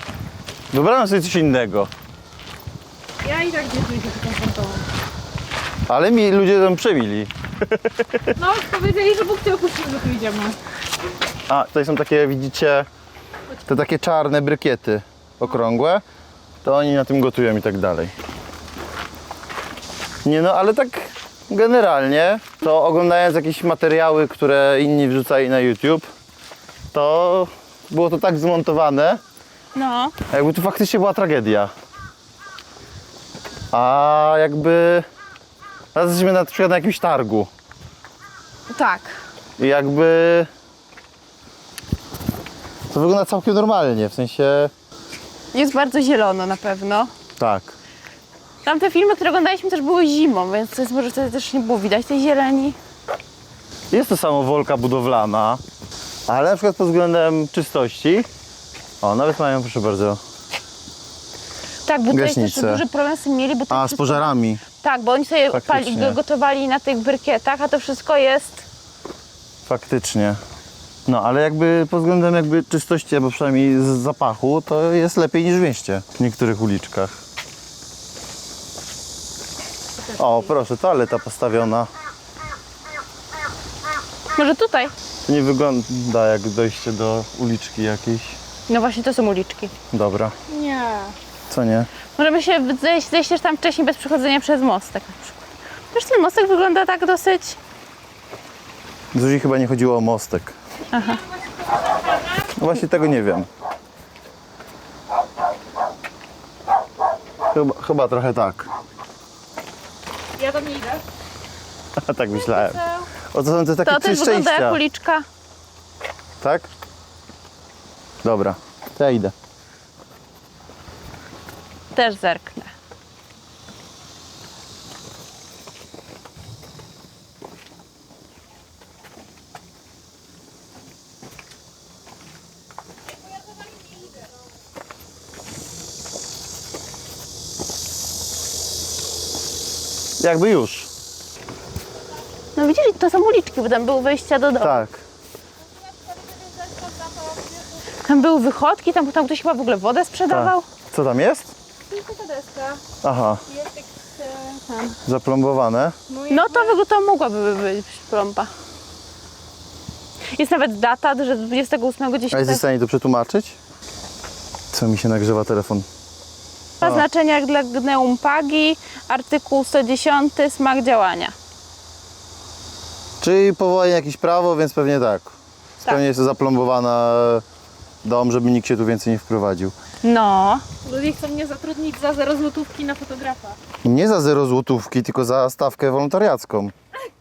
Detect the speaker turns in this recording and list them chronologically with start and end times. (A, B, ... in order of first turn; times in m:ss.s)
0:00.7-0:01.9 A
0:03.2-0:04.8 B
0:05.9-0:08.3 A
0:08.4-0:10.6 B
0:11.5-0:12.9 A
0:13.6-0:16.0 A
0:16.6-0:18.1 A
0:20.2-0:26.1 A
0:26.9-0:29.2 A
0:29.7-0:30.1 C
0:30.3-0:31.7 A
0:33.7-0:35.0 A
0:35.9-0:37.5 A
0:38.7-0:39.2 C
0:39.6-0:40.5 A
0:42.9-0:44.7 A
0:45.5-0:47.1 C
0:47.4-0:47.7 A
0:48.6-0:52.8 C
0:53.9-0:55.6 A
0:56.3-0:58.3 A
0:59.0-1:00.2 A
1:01.8-1:08.6 C
1:02.1-1:02.8 A
1:03.7-1:04.6 A
1:05.5-1:06.2 A
1:09.6-1:10.4 A
1:11.1-1:17.2 A
1:20.1-1:21.9 A
1:24.4-1:24.9 C
1:25.2-1:28.4 A
1:28.7-1:29.7 C
1:29.9-1:30.3 A
1:30.5-1:31.1 B
1:31.5-1:31.9 A
1:32.2-1:35.4 C
1:35.9-1:37.6 C
1:39.1-1:40.5 A
1:40.9-1:41.2 C
1:41.6-1:42.4 B
1:42.6-1:43.5 A
1:47.5-1:48.7 A
1:50.4-1:51.0 B
1:52.0-1:54.8 A
1:52.5-1:53.0 B
1:53.8-1:55.2 C
1:56.4-1:56.7 A
1:58.2-1:59.3 A
2:01.9-2:02.7 C
2:20.2-2:20.9 A
2:22.5-2:24.8 C
2:24.6-2:25.0 A
2:25.9-2:27.8 B
2:28.0-2:30.6 C
2:30.3-2:31.5 A
2:31.8-2:32.8 B
2:33.0-2:33.4 A
2:33.5-2:35.0 B
2:35.0-2:35.9 A
2:36.1-2:36.8 B
2:36.3-2:38.5 C
2:40.3-2:42.6 C
2:42.3-2:43.6 A
2:44.7-2:45.8 A
2:46.8-2:51.3 C
2:53.2-2:57.4 A
2:58.0-2:59.7 A
3:00.0-3:00.6 C
3:00.8-3:03.6 B
3:03.8-3:06.7 A